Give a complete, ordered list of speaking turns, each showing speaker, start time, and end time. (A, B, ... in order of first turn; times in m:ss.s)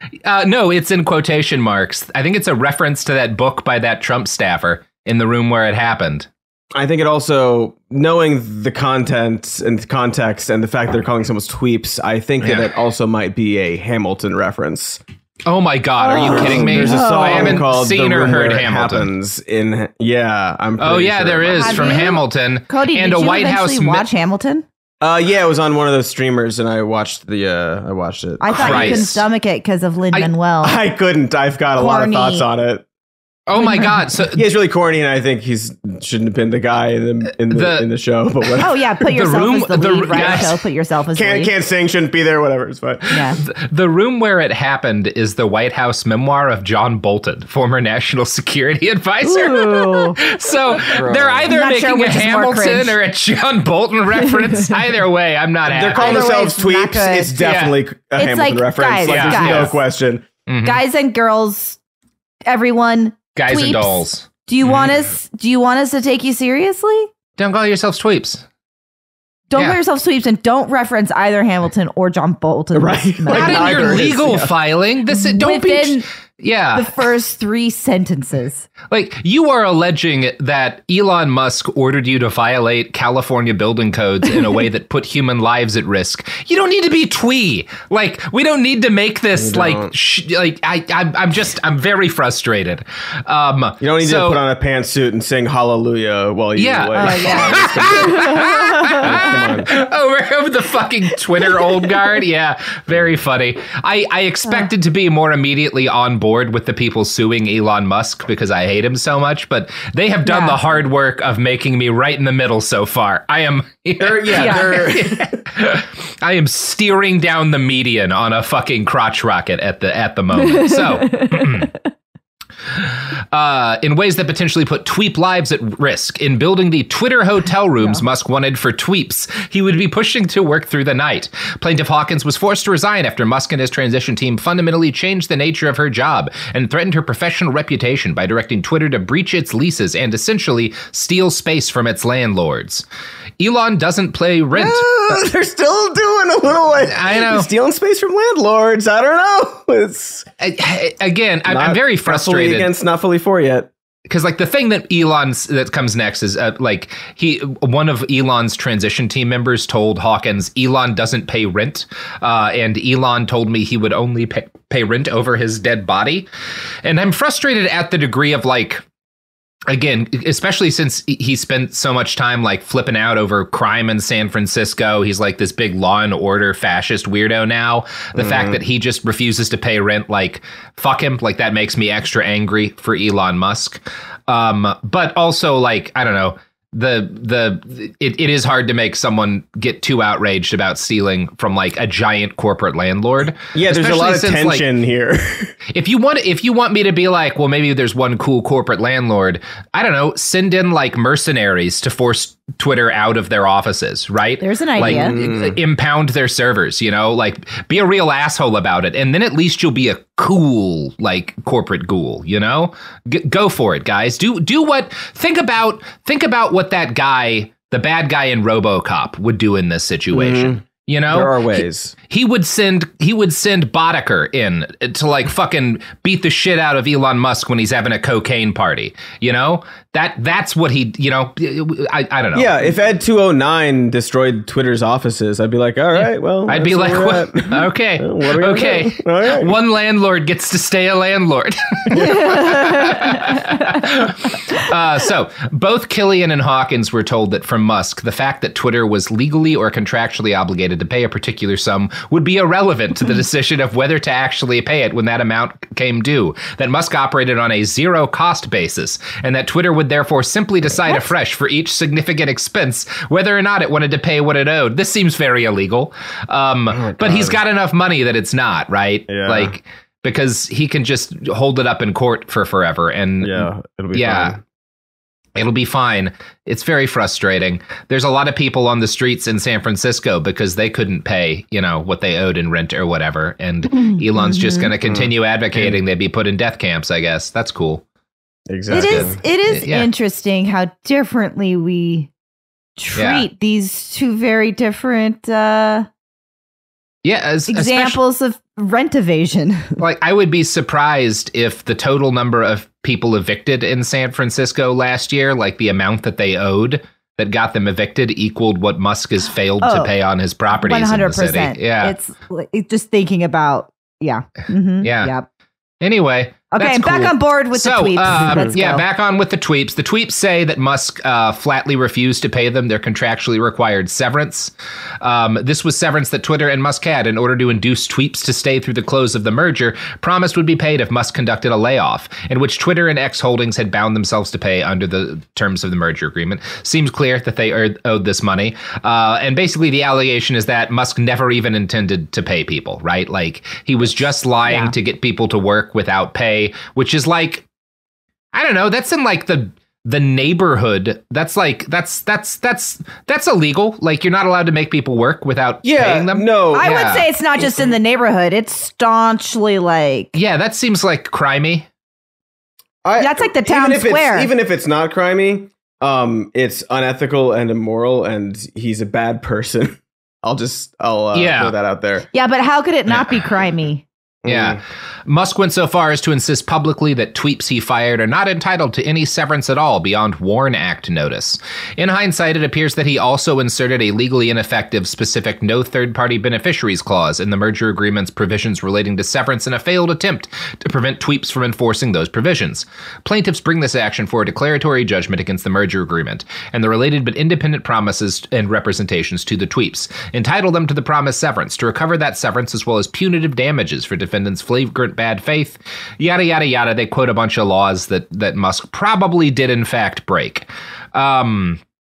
0:00.2-0:06.3 A
0:06.8-0:15.0 B
0:12.4-0:12.7 A
0:15.5-0:19.1 A
0:16.0-0:17.6 C
0:16.3-0:22.1 B
0:20.8-0:24.1 A
0:21.5-0:24.6 C
0:25.0-0:29.1 B
0:28.4-0:30.8 C
0:28.5-0:29.2 A
0:30.6-0:32.9 B
0:31.8-0:32.4 C
0:33.5-0:34.5 A
0:33.6-0:34.0 C
0:34.3-0:39.4 B
0:37.5-0:37.9 A
0:38.6-0:41.5 C
0:39.1-0:40.6 A
0:40.1-0:40.5 B
0:41.1-0:43.4 B
0:43.1-0:43.4 C
0:43.4-0:56.4 A
0:49.2-0:50.2 C
0:50.9-0:51.5 B
0:51.5-0:53.0 C
0:54.4-0:54.7 C
0:55.7-1:00.2 B
0:55.9-0:57.4 C
0:57.4-0:57.8 A
0:58.2-0:59.8 C
0:59.0-0:59.8 A
1:00.5-1:00.8 A
1:00.6-1:01.8 C
1:02.5-1:07.1 C
1:03.4-1:04.9 A
1:07.4-1:08.4 A
1:09.5-1:14.1 C
1:09.5-1:09.8 A
1:12.7-1:14.5 B
1:13.3-1:17.0 A
1:15.1-1:16.0 C
1:16.7-1:18.7 C
1:18.9-1:34.4 A
1:29.4-1:29.9 B
1:33.8-1:39.7 B
1:36.6-2:01.7 A
1:37.0-1:39.2 C
1:50.3-1:50.6 C
1:54.0-1:55.4 B
1:54.4-1:54.8 C
2:02.8-2:22.8 A
2:23.4-2:24.9 A
2:24.5-2:30.3 B
2:26.8-2:27.5 A
2:30.4-2:32.7 A
2:31.5-2:33.7 B
2:34.1-2:46.3 A
2:46.8-2:48.8 A
2:49.7-3:14.6 A
2:58.2-2:58.6 B
3:13.5-3:15.5 B
3:15.7-3:52.6 A
3:24.4-3:25.2 C
3:24.8-3:25.6 B
3:40.1-3:42.0 B
3:52.4-3:59.5 B
3:56.5-4:34.4 A
4:26.7-4:27.4 B
4:29.1-4:29.6 B
4:33.2-4:34.4 B
4:35.4-4:47.8 A
4:43.9-4:44.7 C
4:44.8-4:45.8 B
4:48.5-4:49.2 B
4:48.7-4:49.9 A
4:48.7-4:52.1 C
4:52.8-4:55.9 C
4:52.9-4:53.3 A
4:57.0-4:58.0 A
4:57.5-4:59.8 C
4:59.8-5:12.0 A
5:09.6-5:09.9 C
5:10.5-5:15.3 C
5:14.8-5:15.1 A
5:15.8-5:47.5 A
5:16.5-5:18.8 C
5:44.5-5:44.7 C
5:48.3-5:57.1 A
5:55.6-5:57.8 B
5:56.5-6:00.2 C
6:00.2-6:01.7 A
6:02.8-6:12.1 B
6:03.0-6:04.3 C
6:11.1-6:11.6 A
6:12.1-6:13.8 C
6:14.2-6:14.6 B
6:14.3-6:51.6 A